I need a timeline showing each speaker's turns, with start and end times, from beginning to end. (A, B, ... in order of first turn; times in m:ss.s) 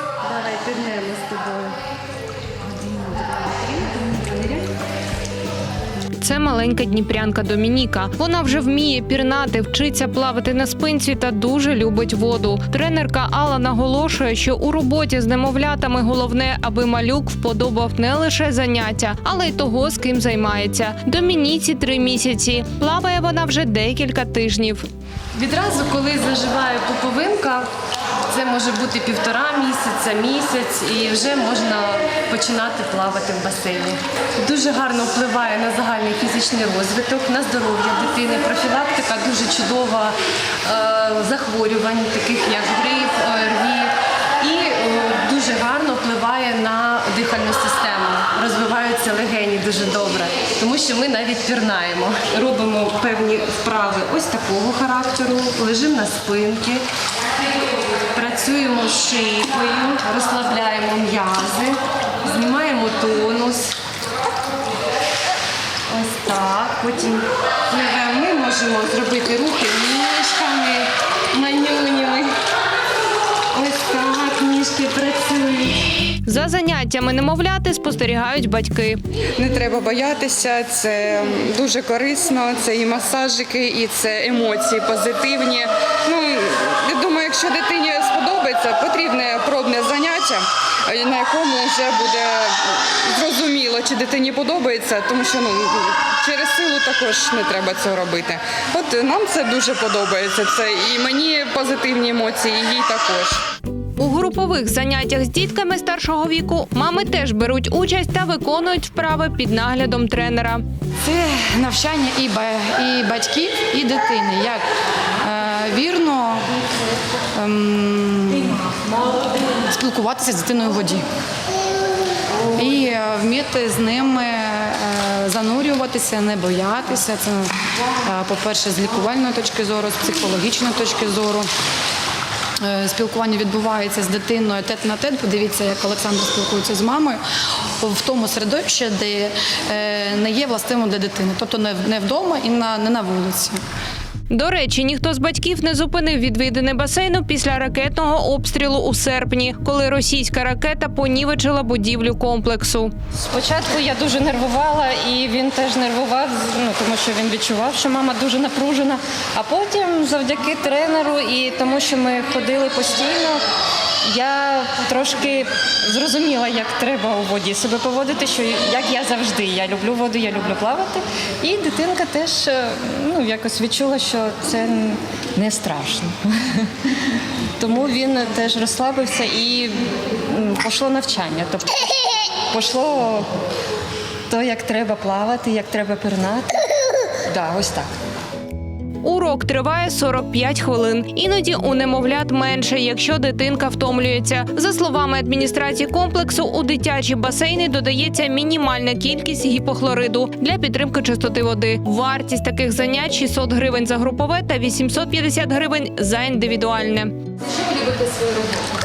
0:00.2-0:01.8 A
0:02.7-0:04.7 A
0:06.2-0:24.8 B
0:25.3-0:27.7 A
0:28.3-0:56.8 A
0:58.1-1:03.8 A
1:05.9-1:12.3 A
1:13.5-1:15.9 A
1:16.2-1:19.0 B
1:19.4-1:43.4 C
1:44.0-1:50.6 B
1:51.0-1:54.6 D
1:55.2-1:56.6 D
1:57.3-1:58.6 D
1:59.6-2:01.0 D
2:02.5-2:11.5 D
2:12.6-2:17.2 D
2:17.8-2:23.6 D
2:24.3-2:32.9 B
2:33.2-2:43.4 E
2:44.0-2:56.7 E
2:57.6-3:03.3 E
3:04.3-3:07.9 E
3:09.0-3:27.1 B
3:27.8-3:28.4 A